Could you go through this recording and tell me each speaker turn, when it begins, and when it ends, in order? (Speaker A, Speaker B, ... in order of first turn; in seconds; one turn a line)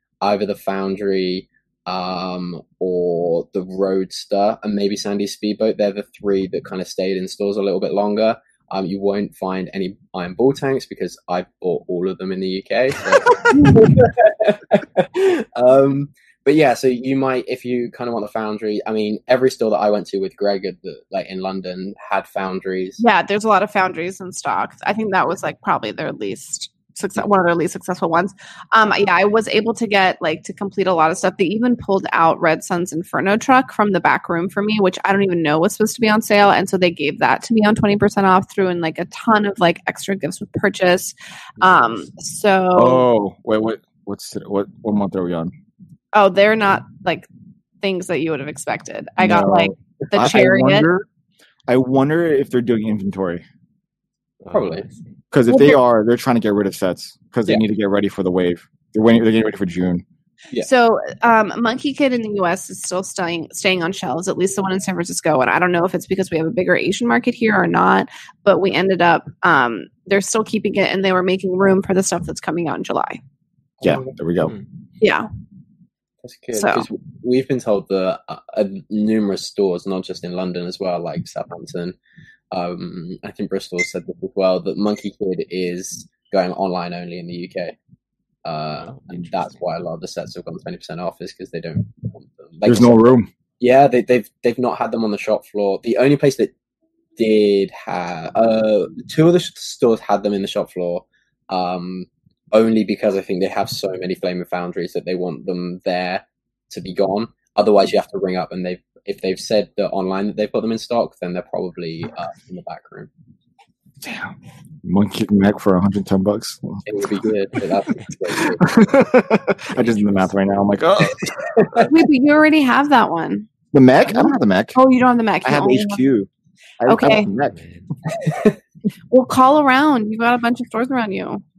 Speaker A: 0.2-23.0
Speaker B: 13.5-13.8
Speaker B: 23.0-43.0
Speaker C: 42.7-45.5
Speaker B: 46.1-47.2
Speaker B: 47.8-50.9
Speaker C: 49.2-51.0
Speaker C: 51.7-53.4
Speaker D: 54.4-55.1
Speaker A: 54.5-54.9
Speaker C: 55.3-60.0
Speaker B: 55.5-55.8
Speaker B: 60.6-73.2
Speaker C: 73.8-74.5
Speaker B: 75.0-75.3
Speaker A: 76.2-82.0
Speaker B: 76.5-76.9
Speaker A: 82.5-87.7
Speaker A: 88.4-96.5
Speaker D: 88.9-89.6
Speaker C: 92.7-93.3
Speaker A: 97.2-113.1
Speaker C: 114.0-114.3
Speaker C: 114.8-116.8
Speaker A: 116.8-118.8
Speaker C: 118.4-121.9
Speaker D: 119.7-120.3
Speaker A: 121.5-121.9
Speaker B: 121.9-123.5
Speaker C: 123.7-124.8
Speaker B: 124.0-126.0
Speaker C: 125.4-126.3
Speaker C: 126.8-127.6
Speaker B: 126.8-127.3
Speaker D: 127.5-127.8
Speaker A: 128.1-128.6
Speaker B: 129.1-131.4